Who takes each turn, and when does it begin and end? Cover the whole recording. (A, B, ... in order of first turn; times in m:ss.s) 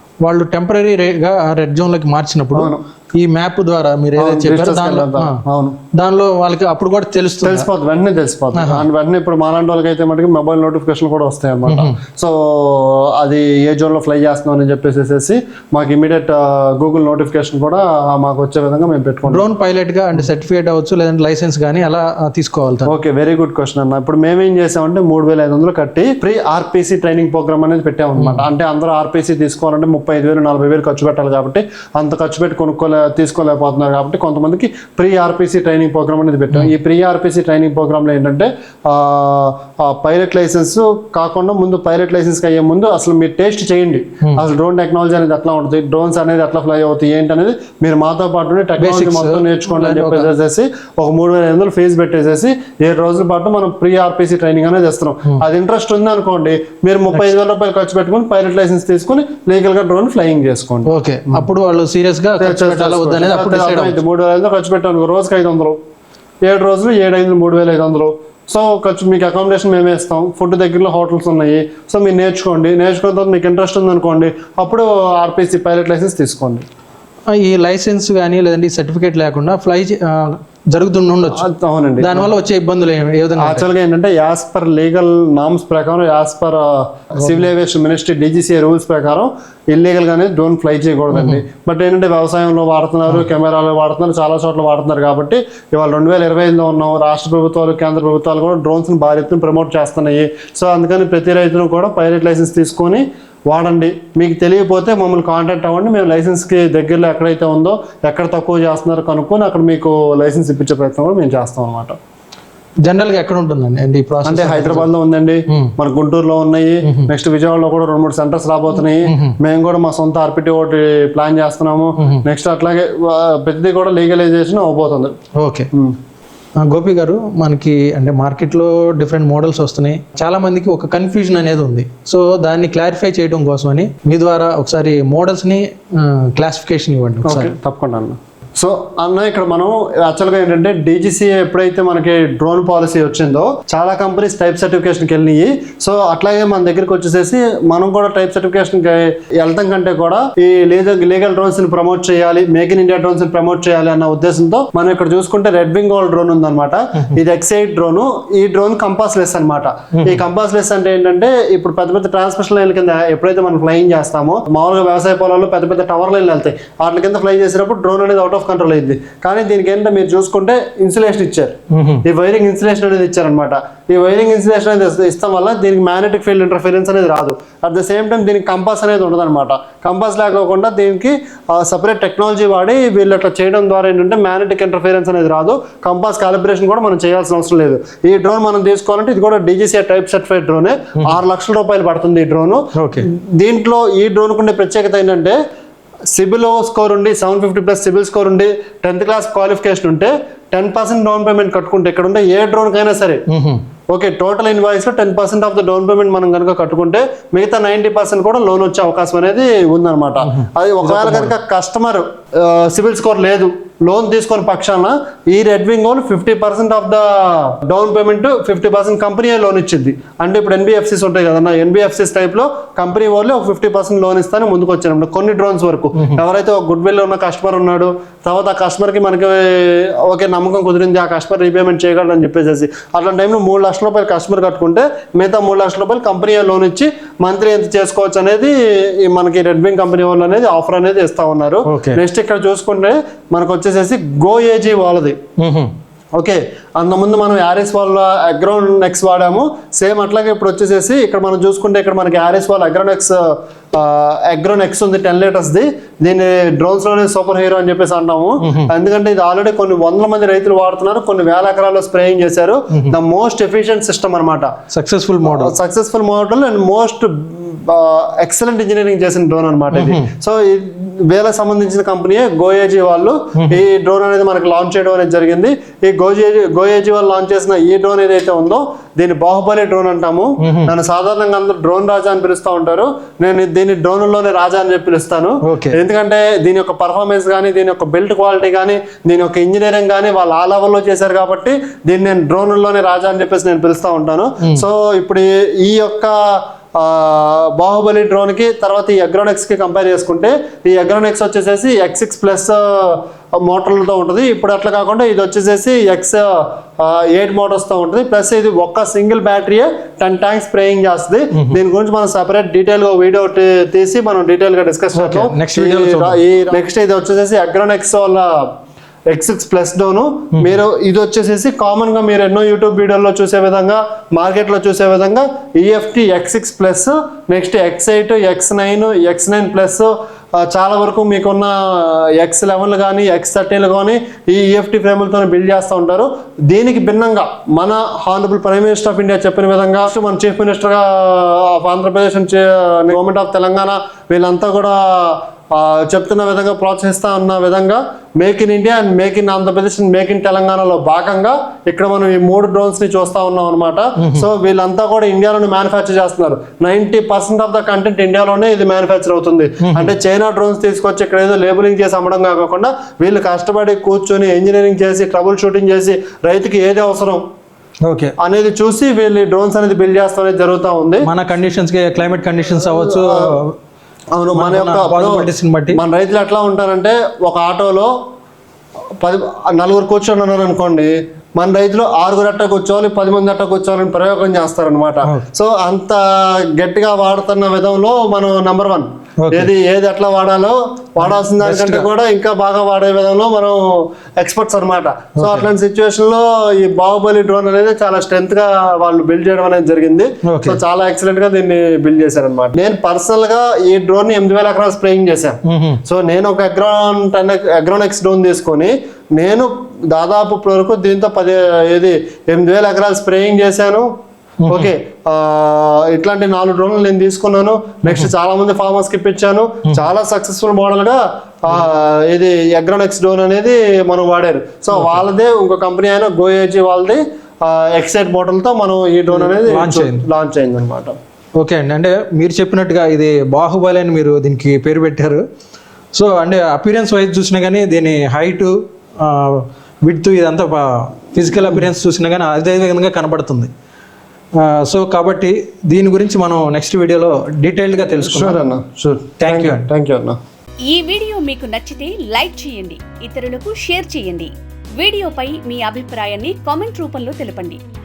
0:00.2-0:05.4 A
0:02.5-0:02.8 B
0:04.2-0:05.8 B
0:06.0-0:07.7 A
0:07.4-0:19.4 B
0:08.5-0:08.9 A
0:11.6-0:12.0 A
0:19.3-0:22.9 A
0:22.8-1:01.4 B
0:28.2-0:28.4 A
0:48.8-0:50.3 A
1:00.8-1:04.0 A
1:02.4-1:05.8 B
1:06.4-1:16.6 B
1:17.3-1:21.4 A
1:21.3-1:22.2 B
1:22.0-1:23.7 A
1:23.4-1:52.0 B
1:31.1-1:31.4 A
1:52.8-1:54.9 A
1:54.2-2:05.1 B
1:55.5-1:55.7 A
1:56.8-1:57.1 A
1:59.0-1:59.3 A
2:02.0-2:02.2 A
2:05.4-2:05.7 A
2:06.6-2:17.5 A
2:17.2-3:15.4 B
2:39.9-2:40.2 A
2:51.7-2:52.0 A
3:12.8-3:13.0 A
3:16.1-3:23.2 B
3:23.3-3:23.6 A
3:23.9-4:05.2 B
3:30.2-3:31.3 A
4:01.6-4:02.0 A
4:05.4-4:05.7 A
4:06.2-4:24.5 B
4:18.4-4:18.7 A
4:24.7-4:25.5 A
4:25.2-5:18.5 B
4:29.7-4:30.1 A
4:40.4-4:40.7 A
4:45.4-4:45.8 A
5:14.9-5:16.2 A
5:19.1-6:07.2 B
5:54.0-5:54.3 A
5:59.6-5:59.9 A
6:07.8-6:08.1 A
6:08.2-6:11.1 B
6:11.0-6:13.5 A
6:12.7-6:13.3 B
6:14.1-6:17.9 B
6:14.3-6:15.8 A
6:19.0-6:53.9 B
6:29.2-6:29.5 A
6:31.0-6:31.9 A
6:35.2-6:35.5 A
6:40.2-6:40.6 A
6:45.5-6:45.8 A
6:54.4-6:54.7 A
6:54.5-7:10.9 B
7:04.7-7:05.0 A
7:09.1-7:10.0 A
7:11.4-7:15.2 A
7:15.9-7:23.5 A
7:24.4-7:28.4 A
7:28.0-7:30.2 B
7:29.2-7:29.7 A
7:30.6-7:37.6 C